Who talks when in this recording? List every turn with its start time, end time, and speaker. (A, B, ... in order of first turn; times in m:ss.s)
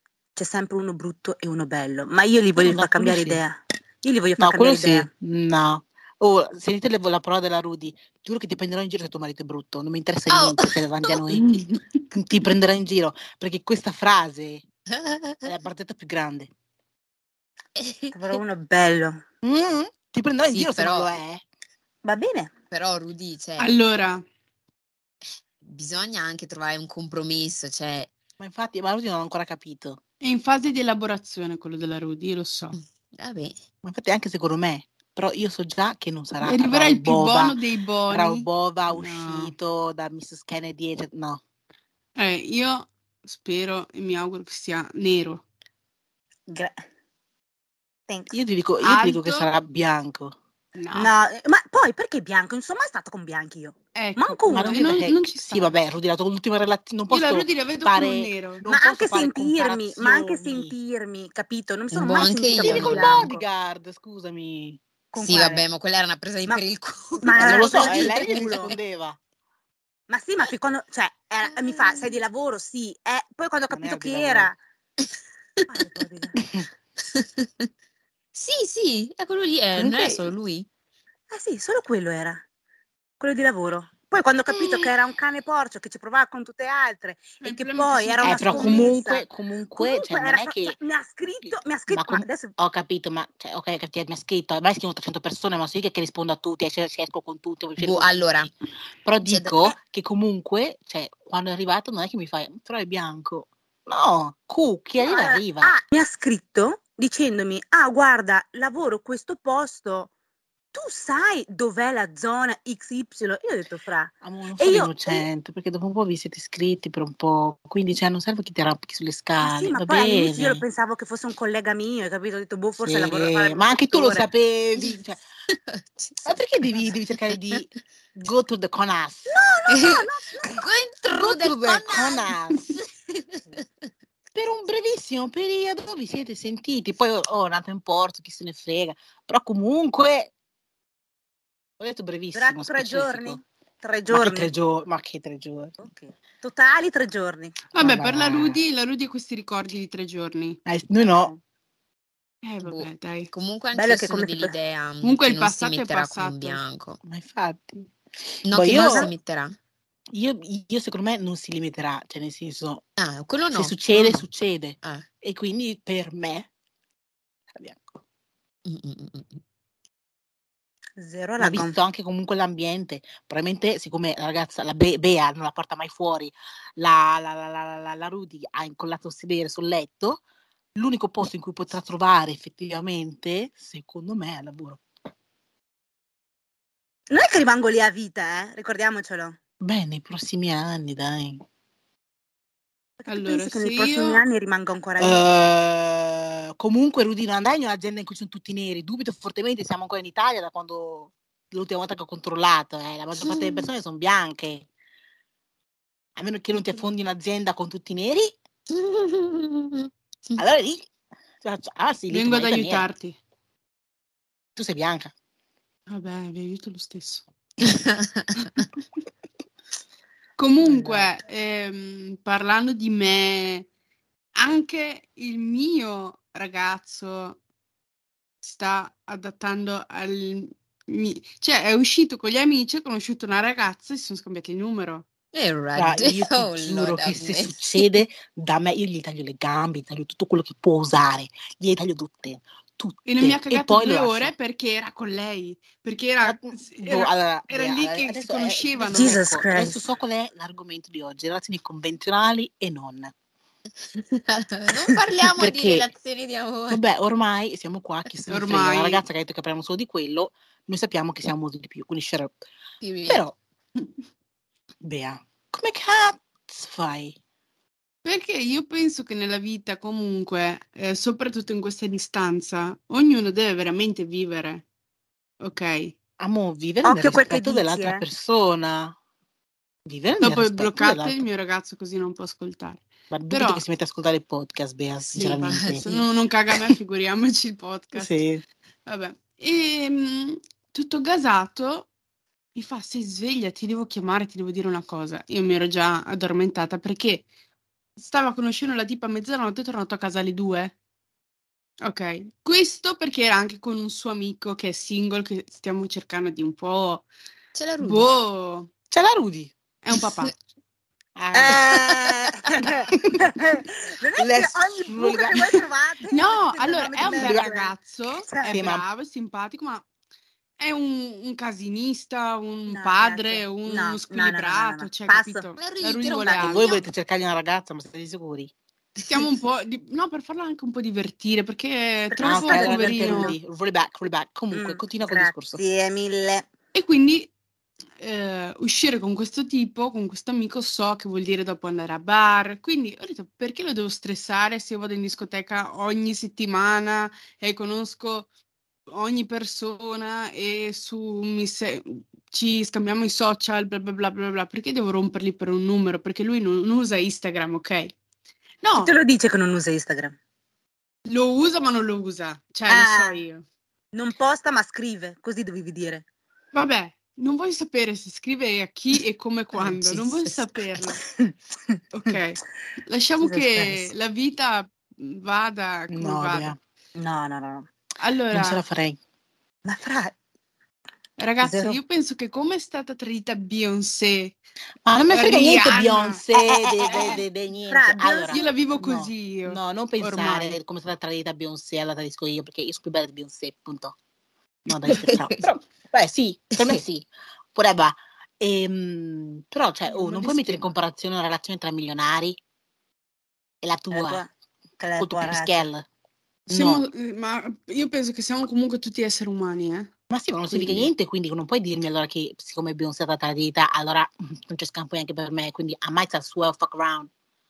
0:00.4-0:05.1 A
0:02.6-0:03.4 B
0:04.4-0:11.5 B
0:10.3-0:11.2 C
0:11.3-0:12.0 D
0:12.1-0:14.6 B
0:14.9-0:15.4 C
0:15.4-0:16.5 B
0:17.8-0:18.4 C
0:18.1-0:19.2 A
0:19.4-0:21.4 B
0:20.5-0:21.1 C
0:22.0-0:22.5 A
0:22.7-0:23.7 C
0:23.6-0:24.2 D
0:25.6-0:28.1 C
0:28.4-0:30.0 B
0:30.2-0:32.8 D
0:32.7-0:33.6 C
0:33.8-0:37.6 B
0:36.4-0:39.5 D
0:38.1-0:41.4 B
0:42.2-0:45.4 D
0:46.5-0:46.8 A
0:48.1-0:48.3 A
0:48.3-0:50.4 B
0:48.8-0:49.5 D
0:50.8-0:51.1 D
0:50.9-0:54.9 A
0:53.9-0:55.7 D
0:54.5-1:00.7 B
0:57.1-0:58.6 D
0:58.7-1:03.4 A
1:01.9-1:03.3 C
1:02.6-1:04.8 B
1:05.1-1:05.6 A
1:05.2-1:08.7 C
1:07.2-1:08.7 A
1:07.3-1:09.2 B
1:10.1-1:14.6 A
1:11.5-1:12.1 C
1:13.7-1:14.5 B
1:15.7-1:16.4 A
1:17.1-1:17.7 C
1:18.3-1:20.7 C
1:19.8-1:20.3 A
1:21.3-1:22.4 A
1:23.2-1:29.2 A
1:27.4-1:29.0 D
1:28.2-1:30.8 B
1:29.8-1:32.5 A
1:31.4-1:38.4 B
1:37.8-1:38.5 C
1:39.0-1:45.7 B
1:39.2-1:39.7 C
1:45.0-1:50.1 A
1:50.7-1:55.2 A
1:54.2-2:00.6 B
1:59.4-2:04.3 A
2:02.8-2:05.2 B
2:05.5-2:07.6 C
2:06.2-2:09.3 B
2:09.3-2:10.6 A
2:09.7-2:13.6 C
2:11.0-2:12.7 B
2:14.3-2:20.3 B
2:21.8-2:23.4 B
2:22.3-2:24.5 A
2:24.1-2:25.8 B
2:25.8-2:27.6 A
2:27.7-2:28.6 B
2:27.7-2:30.6 D
2:30.6-2:31.3 B
2:32.4-2:33.3 D
2:32.6-2:37.0 C
2:33.7-2:34.5 A
2:35.0-2:36.6 D
2:37.0-2:37.8 B
2:38.4-2:39.6 C
2:38.5-2:39.1 B
2:38.7-2:39.1 A
2:40.1-2:42.8 B
2:43.0-2:44.2 C
2:43.5-2:46.5 B
2:47.5-2:47.9 B
2:48.6-2:49.4 C
2:51.0-2:51.8 A
2:51.4-3:00.2 B
3:00.7-3:04.8 B
3:07.1-3:09.4 A
3:09.6-3:11.4 B
3:13.0-3:15.2 A
3:13.1-3:14.2 D
3:15.0-3:24.6 B
3:23.2-3:23.7 C
3:26.2-3:28.3 B
3:28.7-3:30.4 C
3:30.4-3:30.9 B
3:31.4-3:32.8 B
3:32.1-3:33.2 D
3:34.6-3:35.1 B
3:35.9-3:37.2 D
3:37.6-3:38.6 C
3:40.4-3:43.7 D
3:40.7-3:41.1 B
3:44.4-3:47.4 D
3:48.4-3:55.0 D
3:55.3-3:57.9 C
3:55.8-4:04.3 B
4:03.0-4:09.2 D
4:06.2-4:13.1 B
4:08.9-4:09.8 A
4:13.9-4:16.8 C
4:15.4-4:15.9 B
4:16.7-4:22.4 B
4:18.3-4:19.0 D
4:22.8-4:23.2 C
4:23.1-4:23.4 B
4:24.8-4:27.2 B
4:28.0-4:34.6 D
4:35.4-4:35.9 D
4:36.2-4:39.0 B
4:36.8-4:38.0 A
4:39.8-4:41.2 B
4:40.2-4:43.6 D
4:43.1-4:45.8 B
4:45.1-4:48.2 D
4:45.5-4:46.1 C
4:47.9-4:48.4 B
4:48.8-4:51.9 D
4:52.5-4:57.2 D
4:58.0-5:00.7 D
5:01.8-5:07.1 D
5:07.5-5:08.1 C
5:07.8-5:08.7 D
5:08.9-5:09.5 B
5:09.8-5:10.3 D
5:09.9-5:10.3 C
5:11.1-5:13.3 B
5:11.3-5:18.7 A
5:14.2-5:15.6 B
5:16.1-5:19.8 D
5:17.0-5:17.5 B
5:18.4-5:18.8 B
5:20.6-5:26.7 D
5:22.7-5:25.4 A
5:25.6-5:26.8 C
5:26.4-5:28.5 B
5:29.0-5:29.3 C
5:29.1-5:33.4 D
5:32.1-5:33.4 A
5:32.2-5:35.6 B
5:34.5-5:36.5 A
5:36.7-5:37.3 D
5:38.0-5:48.3 D
5:48.9-5:57.9 D
5:58.6-5:59.0 D
5:58.8-6:00.2 A
6:01.0-6:03.4 D
6:02.7-6:03.2 A
6:03.9-6:06.0 A
6:06.5-6:11.0 D
6:09.5-6:10.9 C
6:11.2-6:11.8 A
6:11.9-6:16.5 D
6:13.2-6:13.9 A
6:15.9-6:16.6 B
6:17.0-6:17.7 A
6:18.0-6:18.6 D
6:18.3-6:19.0 B
6:19.6-6:20.1 A
6:21.2-6:24.4 D
6:21.4-6:21.8 A
6:24.8-6:34.0 B
6:25.1-6:26.2 D
6:26.3-6:28.5 A
6:28.3-6:30.6 D
6:34.6-6:42.4 B
6:34.8-6:35.5 C
6:36.5-6:36.8 C
6:39.8-6:40.7 D
6:43.6-6:44.2 B
6:43.9-6:45.6 A
6:45.0-6:45.8 B
6:46.5-6:46.8 B
6:46.5-6:49.9 D
6:50.1-6:57.1 B
6:50.5-6:50.9 D